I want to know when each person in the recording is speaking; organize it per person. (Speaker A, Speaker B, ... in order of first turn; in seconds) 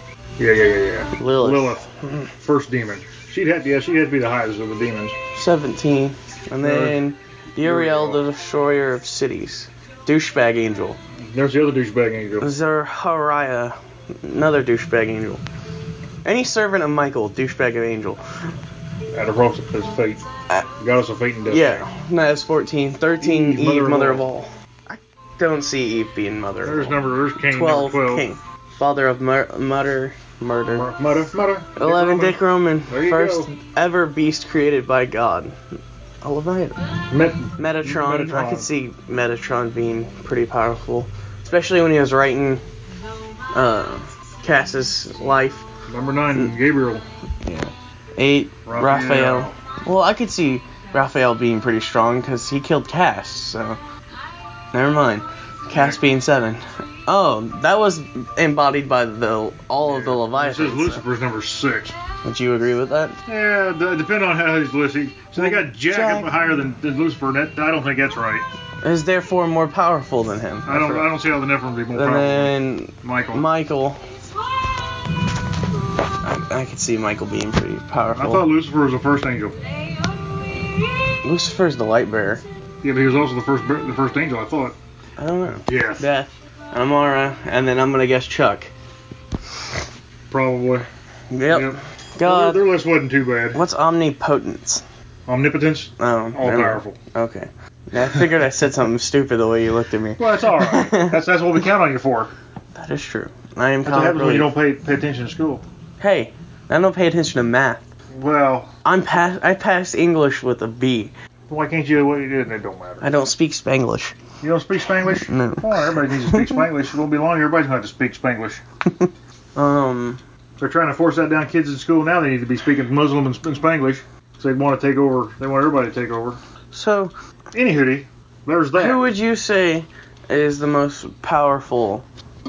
Speaker A: 0.4-1.9, 2.4-5.2, 6.6-7.0, 7.6-8.2, 11.3-12.5, 19.1-20.2, 20.8-21.8, 23.2-24.2, 26.6-28.2, 30.7-33.5, 37.1-38.7, 45.9-47.0, 48.6-49.5, 55.7-56.0, 59.8-62.0, 63.3-68.4, 70.7-73.4, 78.2-79.5, 82.8-84.7, 85.7-86.0, 90.3-90.9, 91.5-93.6, 95.3-97.0, 100.2-102.3, 103.8-105.6, 108.1-108.7, 111.5-113.1, 114.4-118.6, 120.6-126.4, 127.5-129.1
Speaker B: 1.2-2.3, 5.3-11.0, 12.4-15.4, 16.2-18.2, 21.5-30.9, 31.8-35.6, 36.2-36.9, 37.6-42.6, 43.5-45.6, 47.4-53.8, 54.7-61.0, 62.2-63.2, 65.3-66.5, 68.8-71.1, 71.9-74.0, 76.2-78.5, 81.2-82.4, 85.2-88.7, 91.3-92.7, 93.5-94.8, 96.0-101.2, 102.8-104.5, 106.0-107.8, 108.8-111.1, 113.0-114.2, 115.3-116.7, 119.0-120.2, 126.7-127.1, 128.7-132.0